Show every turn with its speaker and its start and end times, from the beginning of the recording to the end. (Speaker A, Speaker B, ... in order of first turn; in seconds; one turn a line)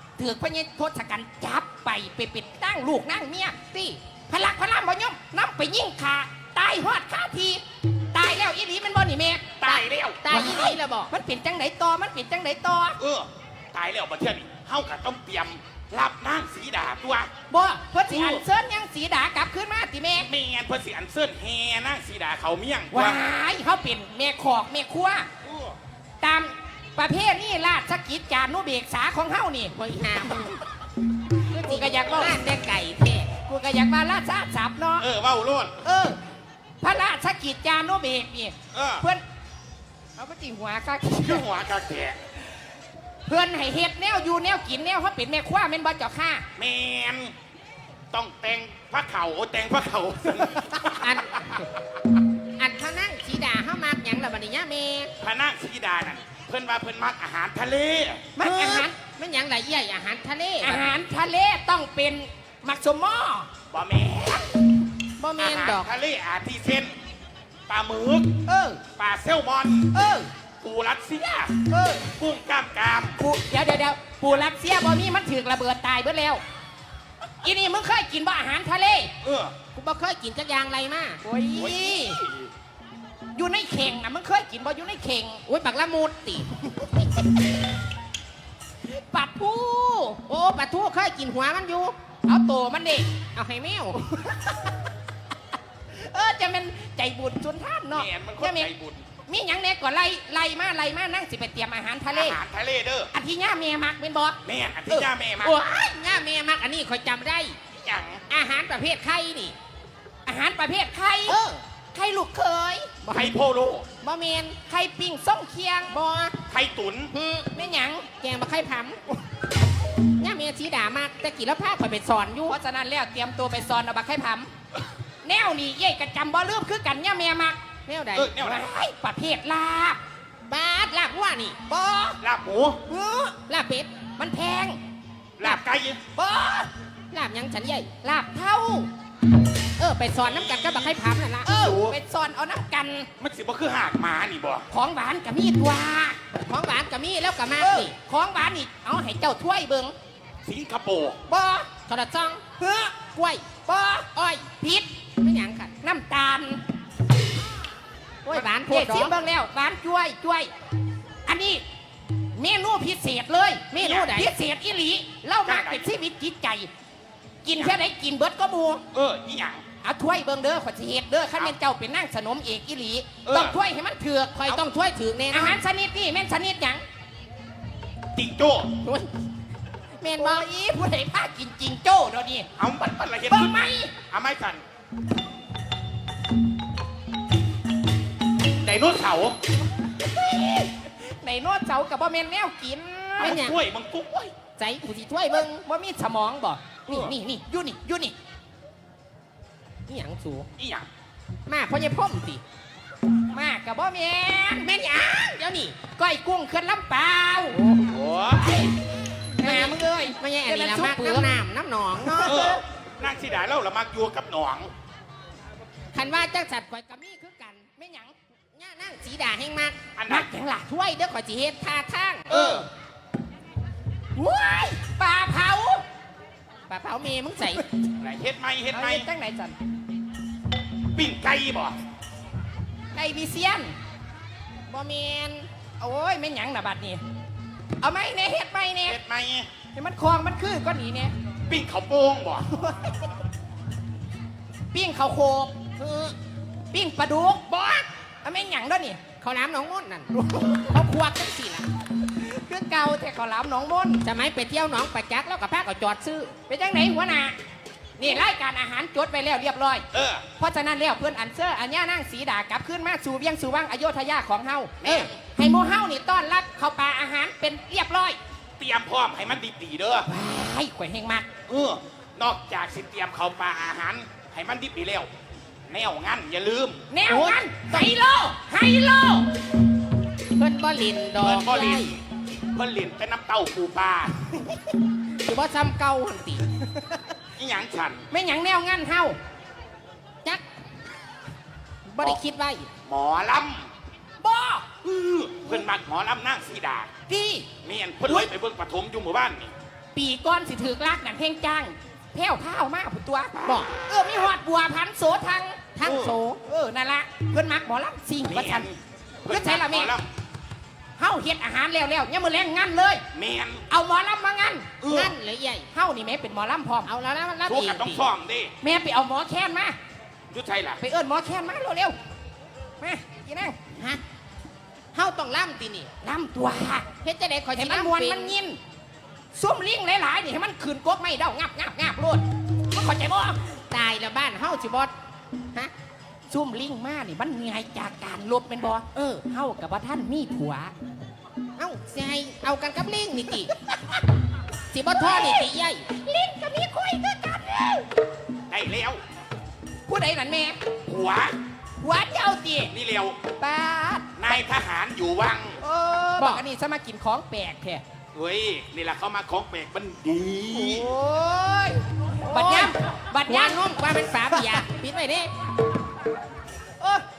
Speaker A: 0.2-7.6
Speaker A: 8.1-9.6
Speaker B: 9.6-10.2
Speaker C: 9.6-11.1
Speaker A: 10.3-13.0
Speaker B: 13.0-17.3
Speaker A: 17.5-20.3
Speaker B: 18.1-18.4
Speaker B: 20.2-23.3
Speaker A: 22.9-25.3
Speaker B: 25.4-25.8
Speaker A: 26.2-29.7
Speaker C: 29.7-30.6
Speaker C: 31.5-33.3
Speaker A: 31.6-32.4
Speaker A: 33.4-35.1
Speaker B: 35.0-35.8
Speaker A: 35.8-36.2
Speaker A: 36.8-39.2
Speaker B: 38.7-39.0
Speaker A: 40.2-41.4
Speaker B: 41.2-42.2
Speaker A: 43.2-46.5
Speaker B: 46.6-47.3
Speaker B: 48.1-51.6
Speaker C: 51.0-51.6
Speaker C: 52.6-55.1
Speaker B: 55.2-58.3
Speaker A: 58.4-58.9
Speaker C: 58.4-60.8
Speaker A: 60.6-63.5
Speaker B: 63.7-64.5
Speaker C: 65.2-65.9
Speaker B: 65.4-67.0
Speaker B: 67.7-68.4
Speaker A: 68.5-68.8
Speaker B: 69.0-69.9
Speaker A: 69.9-70.3
Speaker B: 70.6-71.6
Speaker A: 71.7-72.1
Speaker B: 72.2-73.2
Speaker A: 73.2-76.4
Speaker A: 77.4-79.1
Speaker B: 79.2-79.5
Speaker C: 79.7-81.2
Speaker A: 81.2-82.2
Speaker B: 81.5-82.5
Speaker A: 83.3-85.4
Speaker C: 85.5-86.6
Speaker A: 88.8-90.2
Speaker C: 90.3-91.9
Speaker A: 92.2-93.1
Speaker C: 93.3-94.0
Speaker A: 94.1-94.7
Speaker A: 95.9-98.7
Speaker B: 97.9-99.0
Speaker A: 99.2-102.4
Speaker B: 102.1-103.1
Speaker A: 103.1-104.3
Speaker B: 104.4-105.5
Speaker C: 104.9-107.6
Speaker B: 107.7-108.2
Speaker C: 108.3-109.5
Speaker A: 110.2-111.4
Speaker C: 111.3-111.6
Speaker A: 111.9-112.9
Speaker B: 113.0-113.9
Speaker C: 113.0-113.3
Speaker C: 114.0-114.6
Speaker A: 114.7-115.9
Speaker C: 115.9-116.3
Speaker B: 116.5-117.1
Speaker C: 117.1-117.5
Speaker A: 117.5-118.1
Speaker C: 118.2-119.0
Speaker C: 120.2-122.6
Speaker A: 122.5-124.5
Speaker A: 125.2-127.6
Speaker C: 127.8-128.5
Speaker B: 128.1-128.7
Speaker A: 128.4-130.0
Speaker C: 130.5-131.6
Speaker A: 131.7-132.2
Speaker B: 132.2-132.8
Speaker A: 132.9-133.3
Speaker C: 133.4-133.9
Speaker A: 134.2-134.8
Speaker B: 135.4-136.0
Speaker A: 136.1-136.7
Speaker C: 137.1-137.9
Speaker A: 138.0-138.9
Speaker C: 139.8-141.8
Speaker B: 140.2-140.9
Speaker A: 141.4-143.1
Speaker B: 141.6-142.0
Speaker B: 143.2-144.7
Speaker A: 144.7-146.2
Speaker C: 146.3-147.9
Speaker A: 147.6-149.9
Speaker B: 150.4-151.2
Speaker A: 151.3-151.7
Speaker C: 151.9-152.4
Speaker A: 152.6-153.0
Speaker C: 153.1-153.5
Speaker A: 153.6-154.8
Speaker C: 154.2-154.6
Speaker C: 155.2-155.7
Speaker A: 155.8-156.6
Speaker C: 158.2-159.1
Speaker A: 158.3-160.5
Speaker A: 161.2-161.6
Speaker A: 162.3-166.7
Speaker C: 163.7-164.3
Speaker B: 163.8-164.1
Speaker B: 165.4-165.9
Speaker A: 167.4-168.8
Speaker B: 168.9-169.6
Speaker A: 169.8-174.6
Speaker B: 173.2-173.6
Speaker C: 174.3-175.6
Speaker A: 175.3-176.8
Speaker B: 178.1-178.8
Speaker C: 178.8-179.1
Speaker C: 180.0-180.4
Speaker A: 180.2-182.5
Speaker B: 182.6-183.6
Speaker A: 183.3-183.9
Speaker B: 184.1-184.6
Speaker B: 188.5-189.4
Speaker A: 190.2-193.4
Speaker B: 193.2-194.3
Speaker C: 193.2-193.6
Speaker C: 194.6-195.6
Speaker A: 195.6-198.1
Speaker B: 196.9-197.1
Speaker C: 199.9-200.5
Speaker B: 200.6-200.9
Speaker C: 201.5-202.4
Speaker A: 203.3-204.7
Speaker C: 204.6-205.8
Speaker A: 205.9-207.6
Speaker B: 207.8-208.7
Speaker A: 209.4-211.3
Speaker C: 209.4-212.4
Speaker A: 212.0-212.6
Speaker B: 212.2-214.7
Speaker C: 215.9-217.6
Speaker A: 217.8-218.1
Speaker C: 218.5-219.8
Speaker B: 219.9-220.3
Speaker A: 220.1-220.7
Speaker C: 220.7-222.3
Speaker B: 222.3-222.7
Speaker A: 222.3-222.7
Speaker A: 224.1-225.8
Speaker C: 226.7-227.6
Speaker B: 228.0-229.1
Speaker A: 228.7-229.6
Speaker B: 230.9-231.8
Speaker A: 232.9-233.7
Speaker C: 234.7-235.5
Speaker A: 235.8-237.0
Speaker A: 237.8-239.0
Speaker B: 238.8-239.5
Speaker A: 239.7-241.1
Speaker B: 241.5-242.6
Speaker A: 244.7-245.6
Speaker C: 245.8-246.2
Speaker A: 246.7-247.4
Speaker C: 247.5-247.8
Speaker A: 248.2-249.0
Speaker C: 249.2-251.7
Speaker A: 250.2-250.4
Speaker A: 252.1-254.0
Speaker C: 254.0-256.3
Speaker A: 256.5-257.4
Speaker A: 258.0-259.9
Speaker B: 259.9-260.2
Speaker A: 260.4-268.2
Speaker B: 264.8-265.2
Speaker B: 268.6-270.1
Speaker A: 270.0-271.3
Speaker B: 271.5-275.1
Speaker B: 275.7-276.8
Speaker A: 276.9-279.3
Speaker C: 277.1-277.9
Speaker C: 280.4-281.9
Speaker B: 281.2-284.2
Speaker C: 285.2-286.4
Speaker B: 287.4-288.1
Speaker A: 288.1-289.2
Speaker C: 291.9-292.7
Speaker B: 292.9-293.7
Speaker A: 294.2-294.7
Speaker B: 294.8-296.9
Speaker A: 297.1-297.5
Speaker B: 297.6-299.5
Speaker A: 299.9-305.6
Speaker C: 303.4-303.7
Speaker C: 305.7-306.4
Speaker B: 305.8-306.2
Speaker A: 306.4-308.7
Speaker B: 308.3-310.1
Speaker A: 309.3-309.9
Speaker A: 311.0-313.0
Speaker B: 313.1-313.6
Speaker A: 313.7-314.7
Speaker B: 314.8-315.1
Speaker C: 314.8-315.7
Speaker A: 315.7-316.9
Speaker C: 316.9-318.1
Speaker B: 317.4-318.5
Speaker A: 318.6-319.8
Speaker B: 320.3-320.8
Speaker A: 320.8-321.9
Speaker A: 322.8-323.6
Speaker C: 324.9-325.9
Speaker A: 326.0-326.9
Speaker C: 327.0-328.3
Speaker A: 327.6-328.6
Speaker A: 329.3-333.4
Speaker C: 333.7-334.9
Speaker A: 336.3-340.7
Speaker C: 341.6-343.5
Speaker C: 344.7-345.9
Speaker A: 345.0-347.9
Speaker B: 348.5-349.0
Speaker A: 349.9-350.6
Speaker B: 350.8-351.4
Speaker A: 351.8-352.7
Speaker B: 352.7-353.2
Speaker A: 353.4-354.3
Speaker B: 354.2-355.6
Speaker A: 355.6-357.8
Speaker C: 356.2-356.4
Speaker B: 358.1-360.9
Speaker A: 360.5-363.6
Speaker C: 362.2-362.7
Speaker C: 363.2-365.3
Speaker A: 364.3-364.6